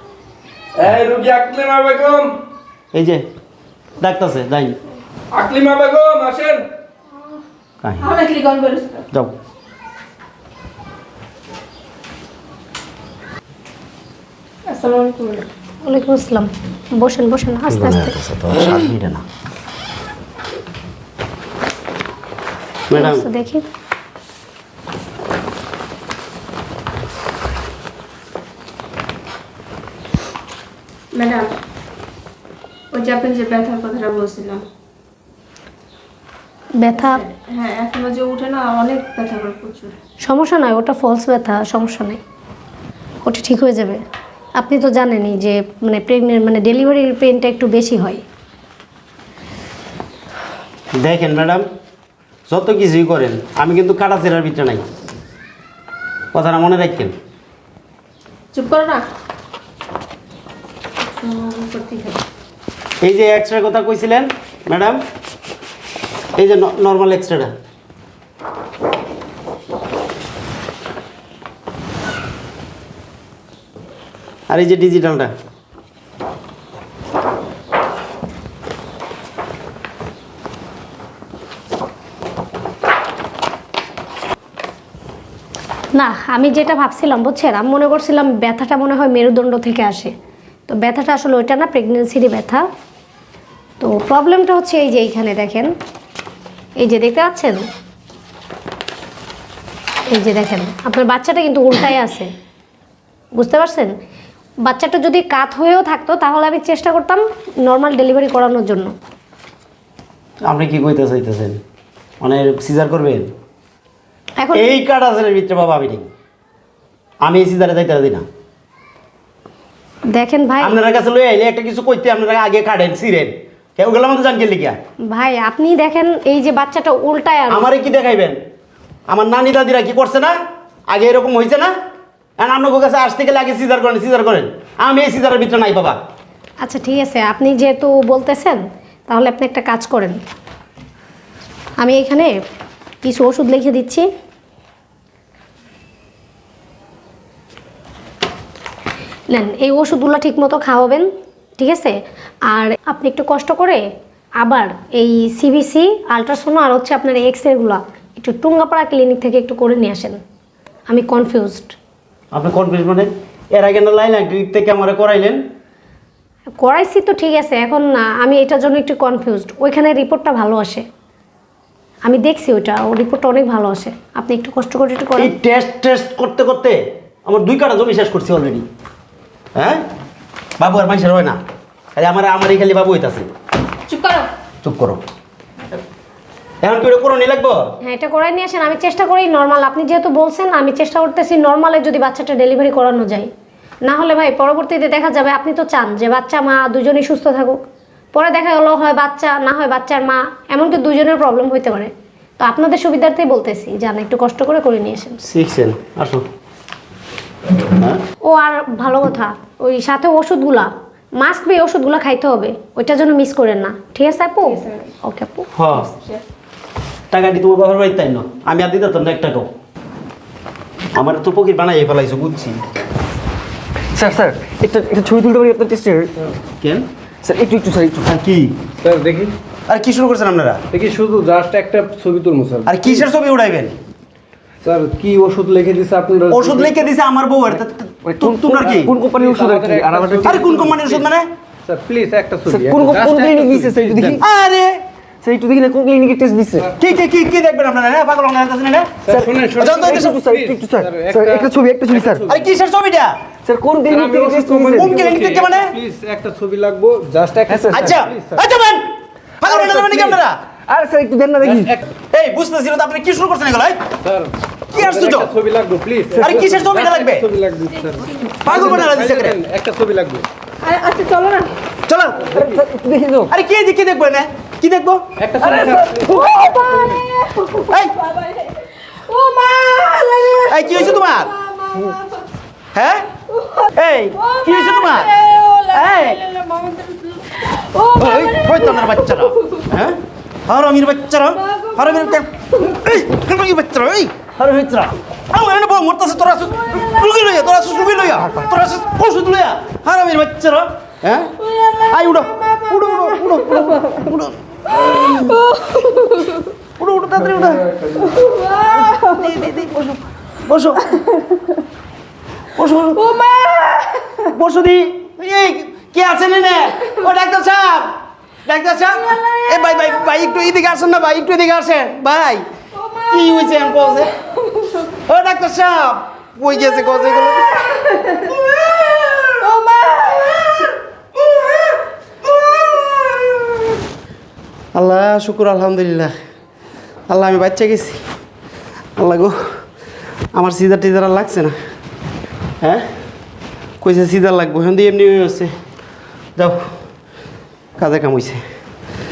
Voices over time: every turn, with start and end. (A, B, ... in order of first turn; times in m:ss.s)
0:00.8-0:02.3 A
0:02.9-0:03.2 B
0:04.0-0:04.8 B
0:05.3-0:06.6 A
0:07.8-0:08.1 B
0:08.0-0:09.0 C
0:14.6-0:15.5 C
0:15.8-0:18.1 D
0:17.7-0:19.2 B
0:22.9-0:23.2 B
0:23.0-0:23.6 D
0:31.1-0:31.5 C
0:32.9-0:34.6 C
0:36.8-0:37.2 D
0:36.9-0:39.9 C
0:40.2-0:42.2 D
0:43.2-0:44.0 D
0:44.6-0:48.2 D
0:51.0-0:51.6 B
0:52.5-0:54.8 B
0:56.3-0:57.2 B
0:58.5-0:59.0 C
1:01.1-1:02.2 C
1:03.0-1:05.0 B
1:06.4-1:07.5 B
1:14.5-1:15.3 B
1:26.0-1:30.1 D
1:30.7-1:32.7 D
1:33.8-1:35.7 D
1:36.8-1:37.6 D
1:40.1-1:42.3 D
1:43.4-1:43.9 D
1:44.6-1:48.9 D
1:50.4-1:51.6 B
1:52.2-1:53.3 B
1:54.4-1:54.7 D
1:54.5-1:56.1 B
1:57.2-1:58.2 B
2:00.1-2:00.8 D
2:00.6-2:04.8 B
2:05.1-2:07.7 D
2:07.5-2:08.4 B
2:09.1-2:10.3 B
2:10.9-2:11.7 B
2:12.4-2:16.0 B
2:16.6-2:20.2 D
2:21.8-2:22.3 D
2:23.0-2:24.1 D
2:29.3-2:33.8 D
2:34.4-2:40.2 D
2:40.9-2:41.7 D
2:42.3-2:45.4 B
2:46.6-2:50.8 D
2:52.0-2:55.3 D
2:55.2-2:58.6 B
2:59.6-2:59.8 B
3:00.6-3:01.4 B
3:02.0-3:03.3 B
3:03.9-3:04.3 C
3:04.6-3:05.0 B
3:06.6-3:07.7 B
3:07.8-3:13.3 D
3:13.8-3:17.6 D
3:18.1-3:25.2 D
3:25.2-3:26.2 B
3:27.8-3:28.0 B
3:28.2-3:35.5 D
3:34.4-3:34.9 C
3:35.6-3:35.9 B
3:35.9-3:36.2 C
3:37.1-3:39.5 B
3:40.9-3:42.6 B
3:43.9-3:46.1 E
3:46.6-3:46.9 B
3:47.2-3:48.1 E
3:48.0-3:48.5 B
3:48.8-3:49.3 A
3:49.7-3:50.6 B
3:50.7-3:53.0 A
3:52.6-3:53.8 B
3:54.6-3:56.9 A
3:56.3-3:58.9 B
3:57.5-4:00.4 E
3:59.2-4:01.0 A
4:00.2-4:01.3 B
4:01.6-4:04.2 A
4:02.5-4:04.2 E
4:04.2-4:04.8 B
4:05.2-4:06.7 E
4:06.8-4:09.0 B
4:09.0-4:12.4 A
4:09.1-4:12.3 E
4:09.6-4:10.2 B
4:12.2-4:13.2 B
4:13.4-4:15.0 E
4:13.9-4:18.4 A
4:14.7-4:15.8 B
4:17.5-4:17.9 E
4:17.7-4:18.9 B
4:19.4-4:20.4 B
4:19.4-4:20.1 E
4:20.7-4:21.8 E
4:21.4-4:21.8 A
4:22.1-4:23.8 B
4:24.0-4:30.2 A
4:24.7-4:25.3 B
4:26.2-4:27.3 B
4:28.1-4:28.4 C
4:28.4-4:29.4 B
4:30.6-4:31.6 C
4:31.9-4:32.4 B
4:32.3-4:32.6 A
4:32.3-4:33.3 E
4:33.3-4:35.1 B
4:35.2-4:37.0 A
4:35.4-4:42.2 C
4:35.6-4:36.5 E
4:37.6-4:37.9 B
4:40.5-4:41.3 B
4:42.7-4:43.1 B
4:43.4-4:49.6 C
4:43.7-4:45.2 B
4:45.7-4:46.2 B
4:47.9-5:05.4 B
4:51.5-4:52.6 C
5:01.5-5:03.9 C
5:04.8-5:06.4 C
5:06.8-5:07.8 B
5:08.0-5:09.4 C
5:08.7-5:11.0 B
5:12.6-5:13.2 B
5:13.0-5:14.2 C
5:14.2-5:22.4 B
5:19.5-5:20.2 C
5:22.8-5:24.8 C
5:23.1-5:24.1 B
5:25.0-5:28.1 B
5:27.9-5:30.6 C
5:34.7-5:36.1 B
5:37.1-5:38.0 B
5:39.0-5:39.6 B
5:40.3-5:41.6 B
5:42.6-5:42.9 B
5:43.8-5:45.5 B
5:46.4-5:46.7 B
5:47.8-5:48.4 B